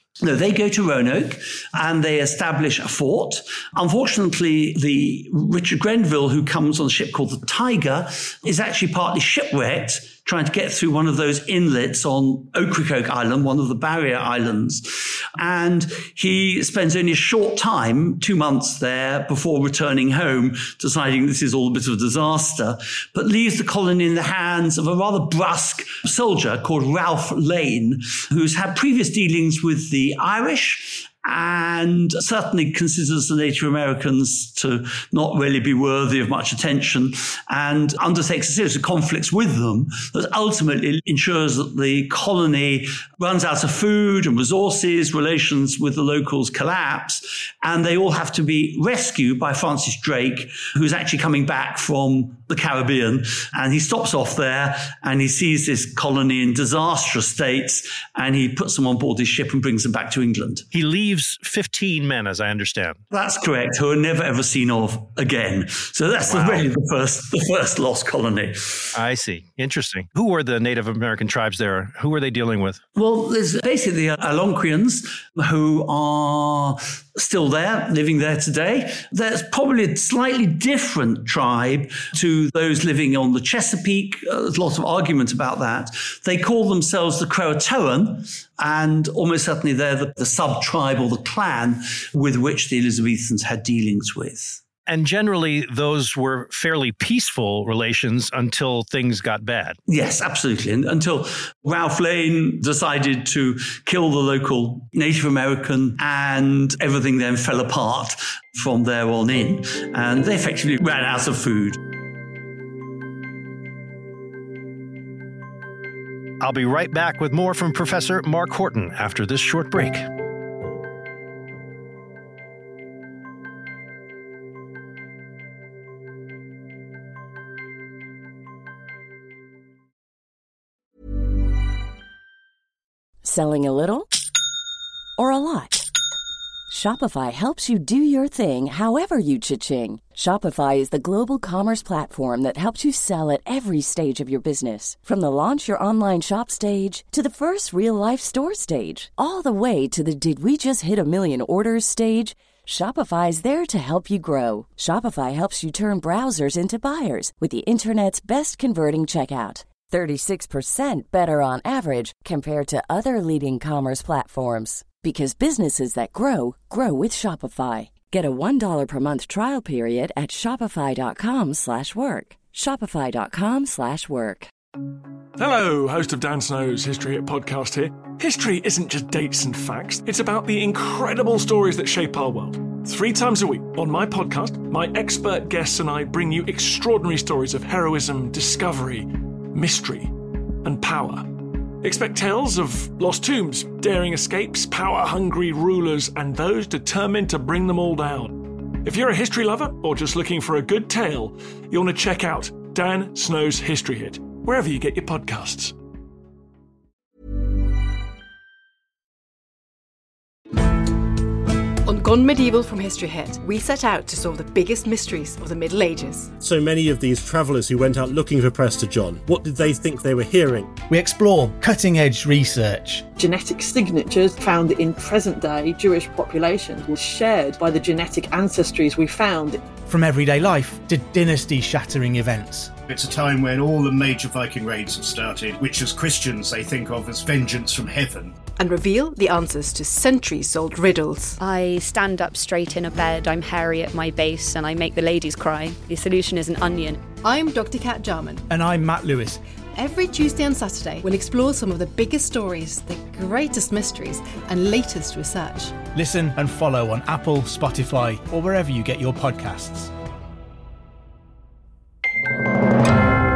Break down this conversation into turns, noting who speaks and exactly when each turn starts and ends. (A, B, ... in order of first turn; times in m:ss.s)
0:00.2-1:00.6 A
1:00.7-1:03.0 B
1:03.1-1:08.9 A
1:06.2-1:06.7 B
1:09.0-1:12.8 B
1:13.0-1:34.6 A
1:34.9-1:39.8 B
1:39.9-1:51.8 A
1:56.4-2:00.1 B
2:13.2-2:14.1 C
2:15.2-2:15.9 C
2:16.7-2:54.5 C
2:55.4-3:25.8 D
3:31.9-3:36.3 E
3:36.4-3:40.8 F
3:40.9-3:43.0 G
3:43.2-3:49.8 H
3:49.8-3:52.7 G
3:52.9-3:58.4 I
3:58.6-4:01.4 E
4:01.4-4:07.0 J
4:07.2-4:08.5 E
4:08.5-4:09.4 G
4:09.8-4:15.8 E
4:15.9-4:19.9 G